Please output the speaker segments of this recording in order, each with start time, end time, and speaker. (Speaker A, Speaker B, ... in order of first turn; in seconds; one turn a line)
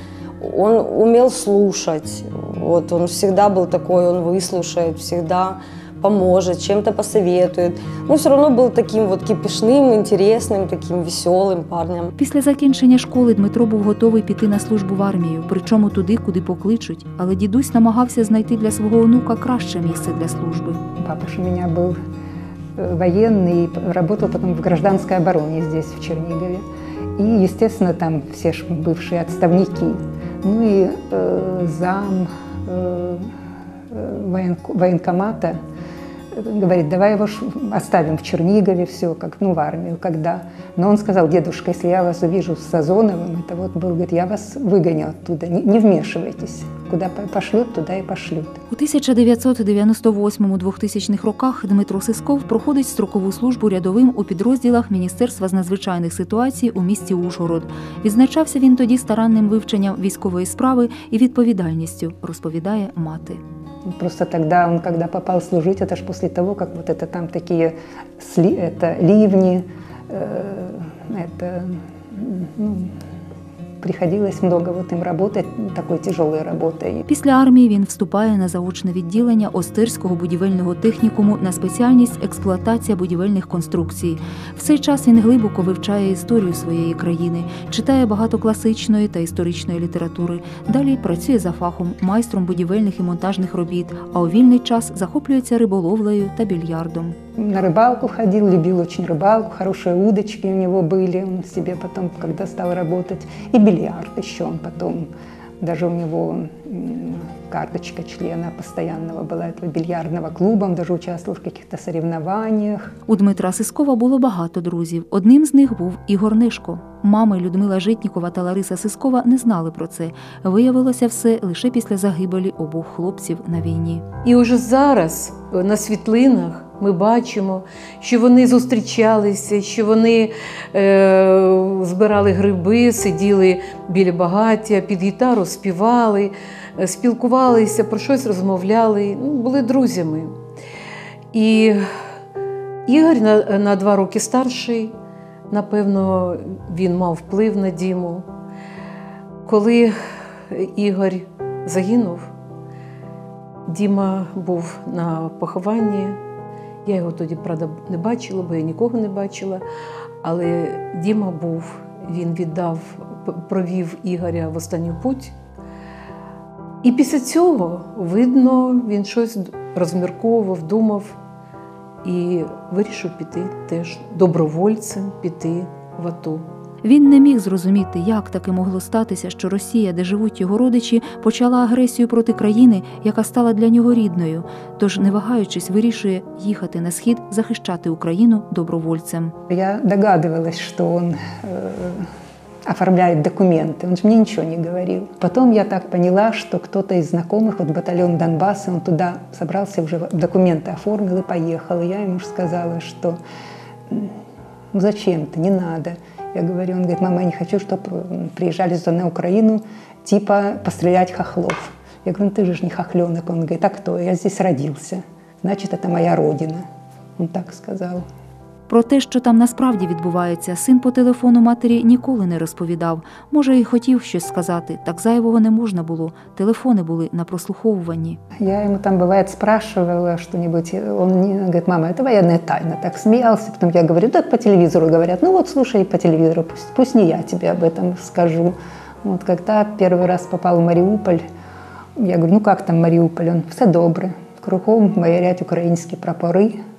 Speaker A: 0.4-12.1
Speaker B: 12.2-20.8
Speaker C: 21.0-21.9
Speaker C: 22.8-26.6
Speaker C: 27.2-33.3
Speaker C: 33.9-35.6
Speaker C: 36.3-48.6
Speaker B: 48.7-63.4
Speaker C: 63.9-72.9
Speaker C: 73.8-77.0
Speaker B: 77.1-97.2
Speaker C: 97.4-105.1
Speaker C: 105.6-112.9
Speaker B: 113.1-124.1
Speaker D: 124.2-140.3
Speaker D: 141.3-141.8
Speaker D: 142.9-144.9
Speaker D: 145.5-148.3
Speaker D: 149.4-149.9
Speaker D: 150.5-152.3
Speaker D: 153.7-156.2
Speaker D: 156.8-159.6
Speaker D: 160.2-165.3
Speaker D: 166.8-171.2
Speaker D: 172.0-176.4
Speaker B: 176.8-189.3
Speaker C: 189.5-192.1
Speaker C: 192.7-203.2
Speaker C: 204.7-216.6
Speaker C: 217.2-218.0
Speaker B: 218.7-228.2
Speaker C: 228.4-241.2
Speaker C: 242.0-246.6